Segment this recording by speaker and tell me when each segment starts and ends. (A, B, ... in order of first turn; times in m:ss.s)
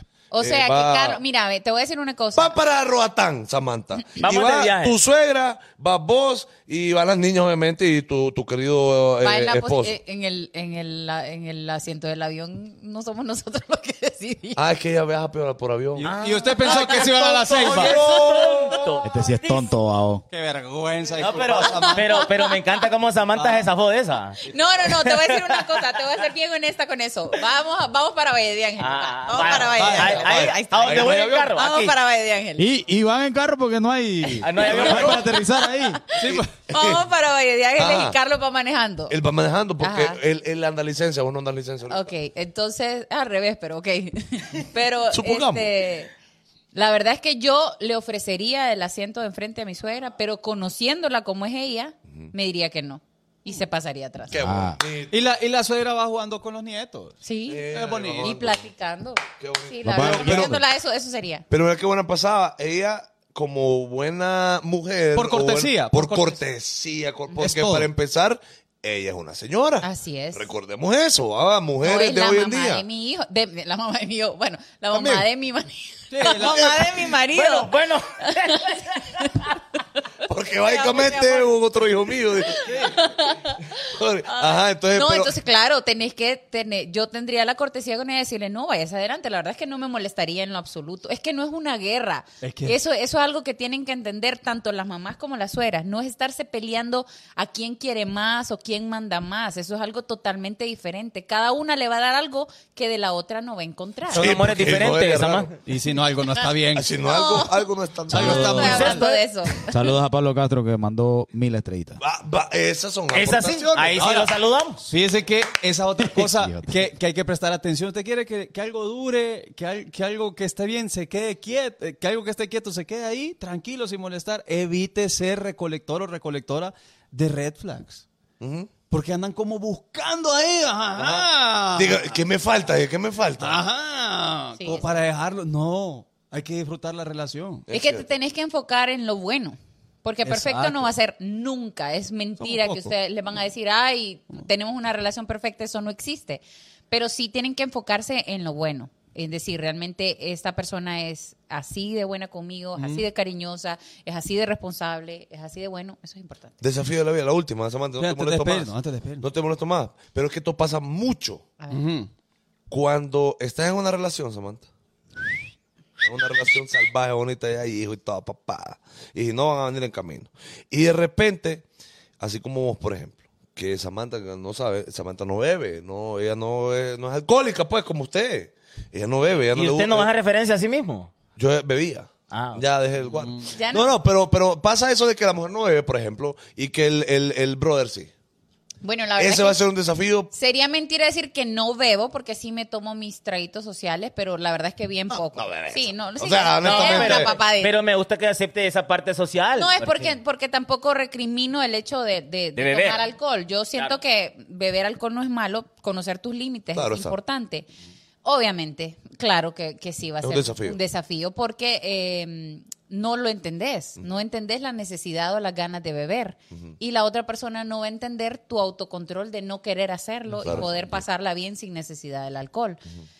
0:00.3-0:02.6 A
0:00.4-0:01.2 B
0:02.3-0:10.0 B
0:04.2-0:05.0 C
0:09.2-0:14.6 A
0:14.6-0:19.0 B
0:16.0-0:18.0 D
0:16.0-0:19.1 C
0:16.6-0:17.2 A
0:19.0-0:20.2 E
0:19.4-0:19.7 A
0:20.3-0:22.1 D
0:21.2-0:25.6 C
0:21.6-0:22.6 A
0:23.3-0:23.6 D
0:24.4-0:32.6 A
0:28.8-0:31.9 C
0:29.7-0:30.2 D
0:29.8-0:31.5 B
0:32.6-0:36.0 E
0:34.4-0:35.3 C
0:34.6-0:35.2 B
0:34.9-0:39.2 A
0:36.1-0:36.5 D
0:36.2-0:37.0 B
0:37.8-0:38.2 B
0:39.1-0:42.1 B
0:39.8-0:40.2 A
0:41.9-0:46.1 A
0:45.1-0:45.7 B
0:46.7-0:54.4 A
0:54.3-0:55.1 B
0:54.4-0:54.8 E
0:55.1-0:57.2 D
0:57.2-1:01.4 A
0:57.5-0:58.6 B
0:57.7-0:58.3 D
0:59.4-1:00.6 B
0:59.8-1:00.6 E
1:01.5-1:12.8 B
1:05.1-1:06.4 D
1:07.4-1:07.9 D
1:09.8-1:10.5 A
1:11.8-1:19.6 A
1:14.9-1:15.2 B
1:16.1-1:16.8 D
1:16.4-1:16.8 B
1:17.1-1:19.5 C
1:20.2-1:23.0 B
1:20.6-1:21.5 A
1:22.4-1:44.3 A
1:22.6-1:22.9 D
1:23.9-1:25.3 B
1:32.4-1:32.8 D
1:44.1-1:45.5 C
1:44.1-1:45.6 B
1:45.6-1:46.9 D
1:46.7-1:49.0 B
1:47.0-1:49.7 A
1:48.1-1:49.0 D
1:48.2-1:48.5 E
1:48.2-1:49.2 C
1:49.6-1:52.0 E
1:52.0-1:54.1 B
1:53.1-1:54.9 C
1:54.0-1:54.3 D
1:54.9-2:08.0 D
1:56.1-1:56.9 E
2:08.4-2:08.7 B
2:08.9-2:12.1 D
2:11.0-2:13.6 B
2:13.4-2:17.7 D
2:14.6-2:14.9 A
2:17.7-2:18.1 B
2:17.7-2:36.6 A
2:20.2-2:20.9 D
2:22.4-2:22.9 D
2:32.8-2:33.0 D
2:36.6-2:41.4 B
2:38.0-2:39.2 D
2:41.6-2:41.8 A
2:41.7-2:42.1 D
2:42.7-2:44.7 B
2:46.0-2:51.6 B
2:52.2-3:00.1 B
2:59.5-3:01.1 C
3:01.4-3:08.1 B
3:02.3-3:02.6 C
3:03.0-3:03.5 D
3:03.5-3:03.9 A
3:08.8-3:09.6 A
3:09.2-3:10.3 B
3:10.3-3:17.7 A
3:15.1-3:17.3 B
3:16.6-3:20.2 C
3:19.6-3:27.6 A
3:22.6-3:23.0 C
3:26.7-3:27.2 B
3:28.2-3:42.8 A
3:30.2-3:30.8 B
3:40.4-3:40.9 B